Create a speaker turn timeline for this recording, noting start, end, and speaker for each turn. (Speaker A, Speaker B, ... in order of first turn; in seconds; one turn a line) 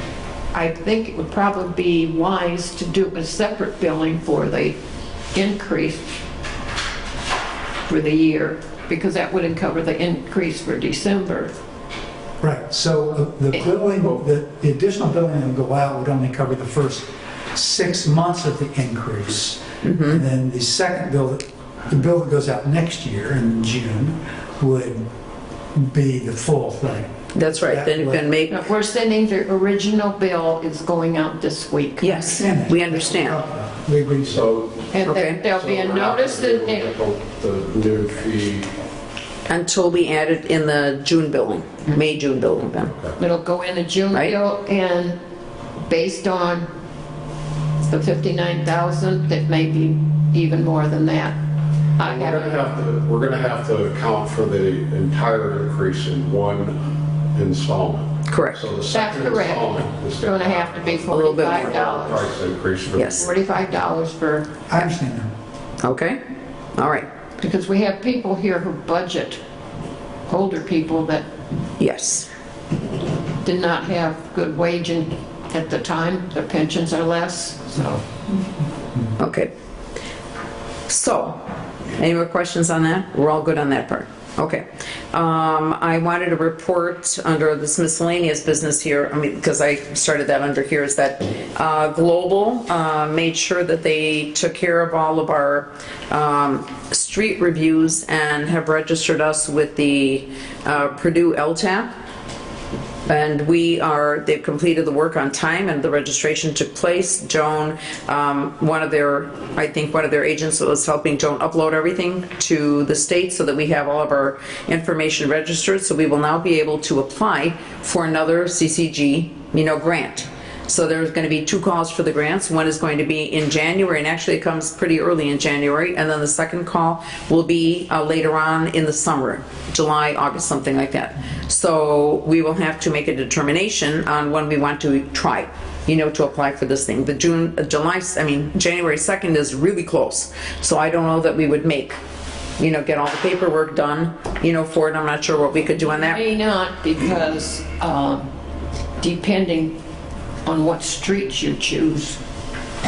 Speaker A: 0.5-4.8
Speaker A: 5.3-6.1
Speaker A: 7.9-11.5
Speaker B: 12.4-25.1
Speaker C: 19.8-20.2
Speaker B: 25.7-28.2
Speaker C: 27.3-28.5
Speaker A: 28.5-32.1
Speaker C: 32.0-33.4
Speaker B: 32.1-34.5
Speaker D: 34.3-34.9
Speaker A: 34.9-36.9
Speaker C: 35.0-35.4
Speaker D: 35.5-38.7
Speaker C: 39.5-42.9
Speaker D: 42.9-43.1
Speaker A: 43.2-45.2
Speaker A: 45.9-46.7
Speaker A: 47.9-51.4
Speaker A: 52.0-52.7
Speaker D: 52.1-56.8
Speaker D: 57.3-63.3
Speaker C: 58.3-58.6
Speaker A: 58.9-62.3
Speaker C: 61.1-61.8
Speaker C: 63.0-63.2
Speaker A: 63.1-64.5
Speaker B: 64.7-65.3
Speaker C: 65.8-66.2
Speaker C: 66.8-67.0
Speaker A: 67.4-69.4
Speaker A: 70.3-71.2
Speaker C: 71.8-72.3
Speaker A: 73.4-78.0
Speaker C: 79.2-79.5
Speaker C: 80.9-81.5
Speaker C: 82.0-101.9
Speaker C: 103.1-142.0
Speaker C: 142.6-146.2
Speaker A: 145.9-148.3
Speaker A: 149.0-149.7
Speaker A: 150.4-152.2